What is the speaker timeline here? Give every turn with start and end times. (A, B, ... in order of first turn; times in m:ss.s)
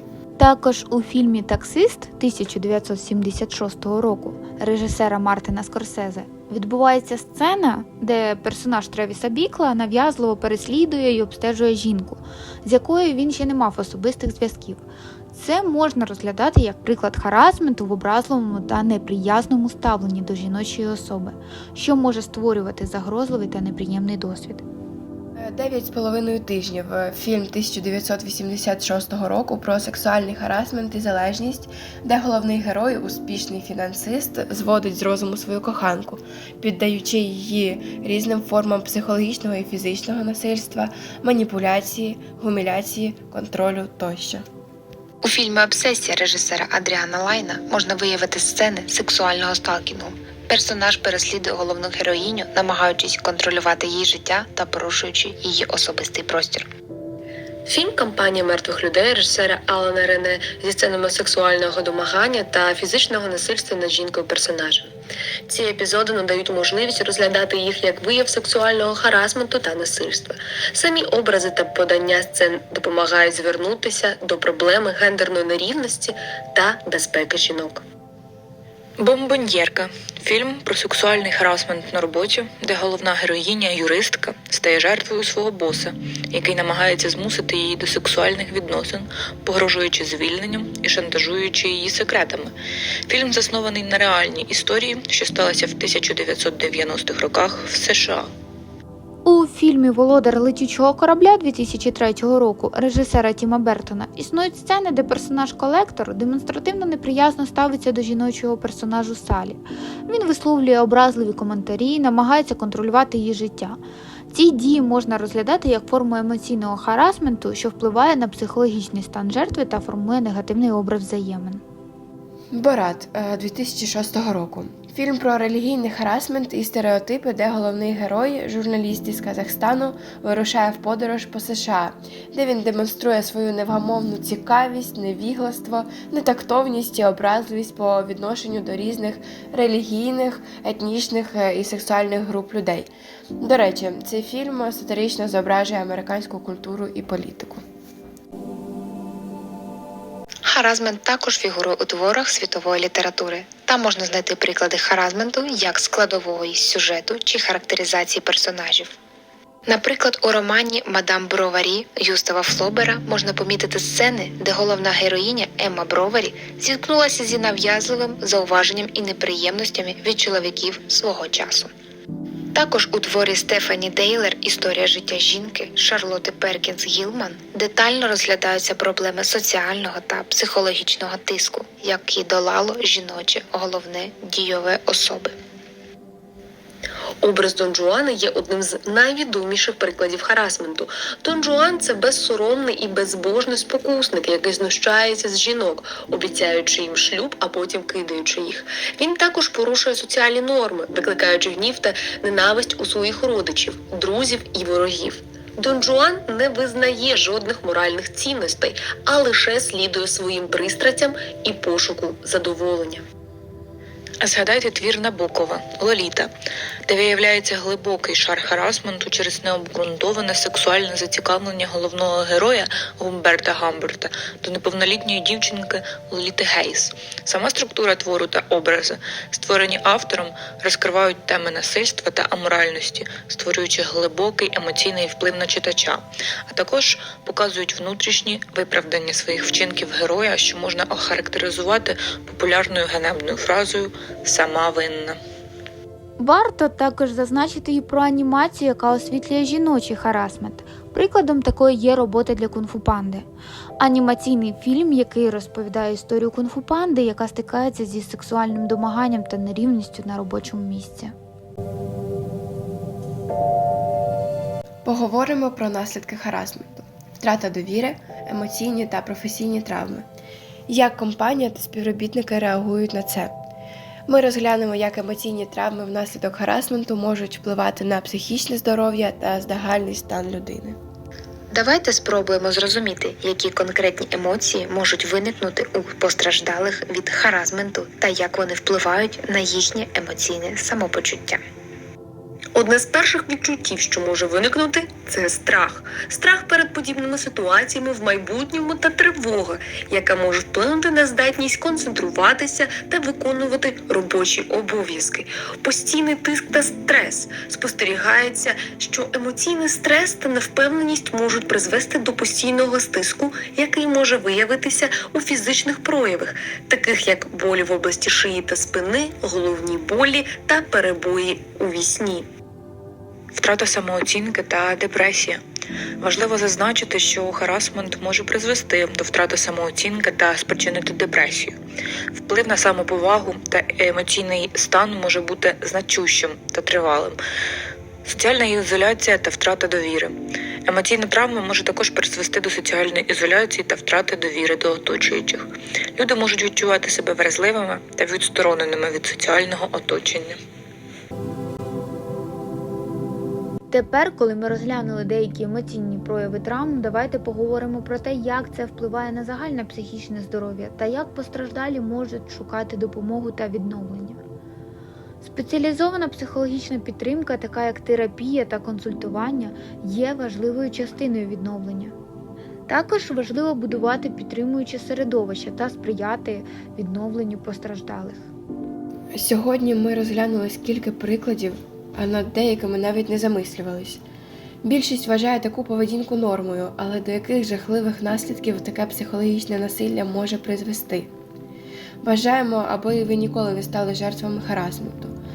0:00.4-0:24.6 A
0:25.4-0:44.4 B
0:45.2-0:56.7 C
0:57.6-1:04.9 D
1:05.5-1:17.8 D
1:19.0-1:32.5 E
1:33.1-1:38.3 E
1:39.2-2:01.6 A
2:02.5-2:27.6 B
2:30.4-2:38.9 C
2:39.7-2:51.7 C
2:52.5-3:05.3 C
3:07.2-3:33.0 D
3:34.2-3:36.3 E
3:36.8-4:05.2 E
4:06.2-4:13.3 A
4:13.8-4:21.1 A
4:24.8-4:30.0 B
4:30.7-4:33.3 B
4:34.1-4:40.8 B
4:41.5-4:51.4 C
4:52.5-5:22.3 D
5:23.3-5:25.4 E
5:26.0-5:31.6 E
5:32.1-5:37.2 E
5:38.0-5:40.1 E
5:40.6-5:50.4 E
5:53.7-6:04.2 A
6:05.2-6:11.9 A
6:12.7-6:18.2 A
6:19.1-6:24.0 B
6:24.6-6:31.1 B
6:32.0-6:35.1 B